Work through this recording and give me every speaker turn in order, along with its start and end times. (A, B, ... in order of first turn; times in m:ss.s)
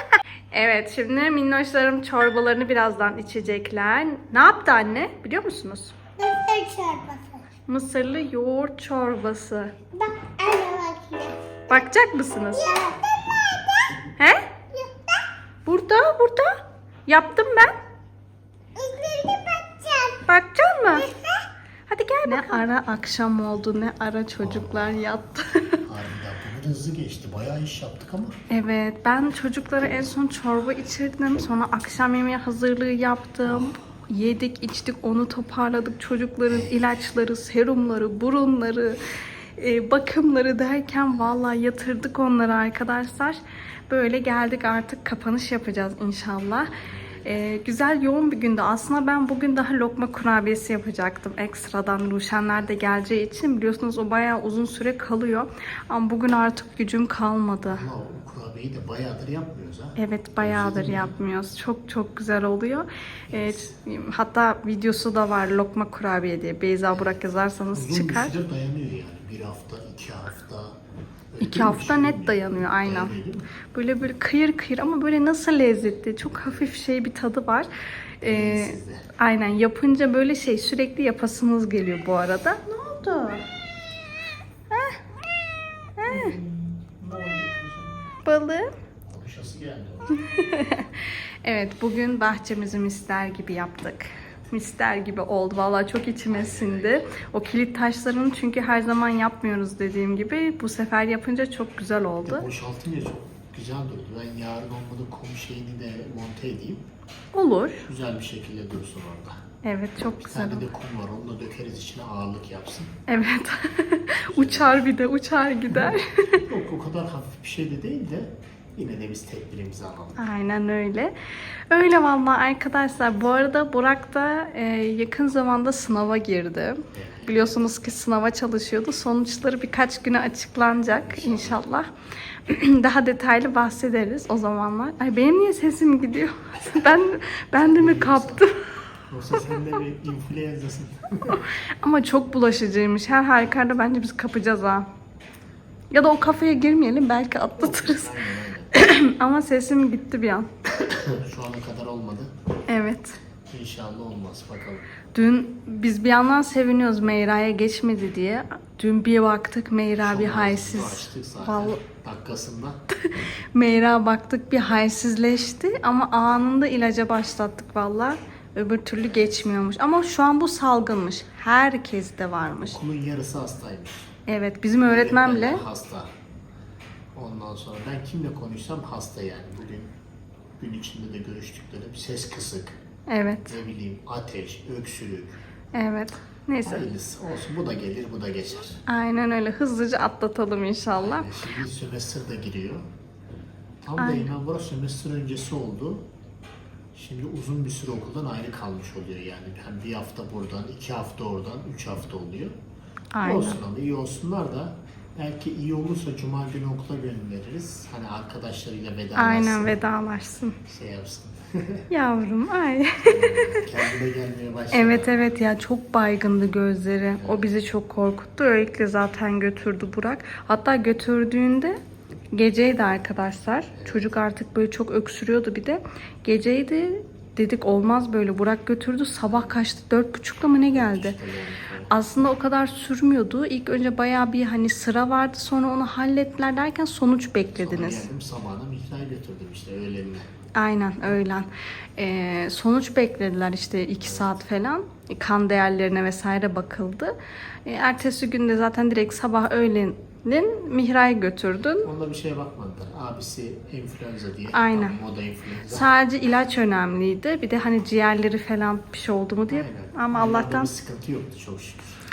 0:00.5-0:06.0 A
0:06.2-0:07.4 B
0:07.7-0:09.8 A
0:09.9-0:11.5 B
0:11.7-0:12.7 A
0:12.6-0:14.1 B
0:14.2-0:14.5 A
0:14.7-0:15.2 B
0:15.7-0:17.8 A
0:18.8-0:20.2 B
0:20.3-0:21.1 A
0:21.0-0:21.4 B
0:21.9-0:25.8 A
0:22.3-0:22.6 B
0:24.4-0:25.2 C
0:25.8-0:28.4 C
0:28.5-0:39.0 A
0:36.5-0:36.8 C
0:39.6-0:57.8 A
0:46.6-0:47.5 C
0:57.7-1:01.1 C
1:00.0-1:08.4 A
1:03.3-1:03.7 C
1:06.9-1:10.8 C
1:11.3-1:13.5 C
1:11.4-1:13.1 A
1:13.7-1:23.5 A
1:16.4-1:16.7 C
1:18.2-1:19.1 C
1:24.7-1:25.0 A
1:26.0-1:26.4 A
1:26.0-1:28.1 C
1:28.2-1:28.8 A
1:29.0-1:30.3 C
1:30.2-1:42.5 A
1:36.3-1:37.3 C
1:42.3-1:46.9 C
1:47.3-1:47.9 A
1:47.9-1:49.4 C
1:49.6-1:50.7 A
1:50.2-1:53.0 C
1:53.1-1:56.4 A
1:54.3-1:54.8 C
1:55.7-2:00.2 C
2:00.2-2:01.2 A
2:01.7-2:11.9 A
2:06.9-2:07.6 C
2:11.0-2:11.6 C
2:12.5-2:18.6 A
2:17.5-2:18.4 C
2:19.1-2:21.5 C
2:21.8-2:24.9 A
2:25.9-2:28.1 A
2:27.6-2:28.7 C
2:28.7-2:30.5 A
2:30.9-2:32.3 C
2:32.7-2:33.2 A
2:33.5-2:34.9 C
2:35.1-2:41.8 A
2:40.0-2:42.8 C
2:43.5-2:52.8 A
2:52.7-2:54.1 C
2:54.3-2:55.7 A
2:54.8-2:56.1 C
2:57.2-3:00.0 C
3:00.6-3:02.8 C
3:03.1-3:03.6 A
3:03.5-3:05.4 C
3:05.7-3:06.9 A
3:06.6-3:08.8 C
3:08.9-3:11.3 A
3:11.0-3:12.8 C
3:13.8-3:16.1 C
3:14.0-3:14.3 A
3:16.9-3:22.6 C
3:23.1-3:23.6 A
3:23.2-3:29.7 C
3:29.2-3:30.6 A
3:30.7-3:31.9 C
3:31.9-3:33.6 A
3:33.0-3:35.1 C
3:34.7-3:41.8 A
3:37.2-3:37.5 C
3:42.3-3:51.2 A
3:43.7-3:44.2 C
3:49.3-3:49.6 C
3:50.7-3:51.9 C
3:51.9-3:58.1 A
3:57.6-4:00.3 C
4:00.6-4:11.9 A
4:04.0-4:04.3 C
4:11.8-4:15.9 C
4:14.5-4:15.0 A
4:15.7-4:20.7 A
4:19.5-4:22.0 C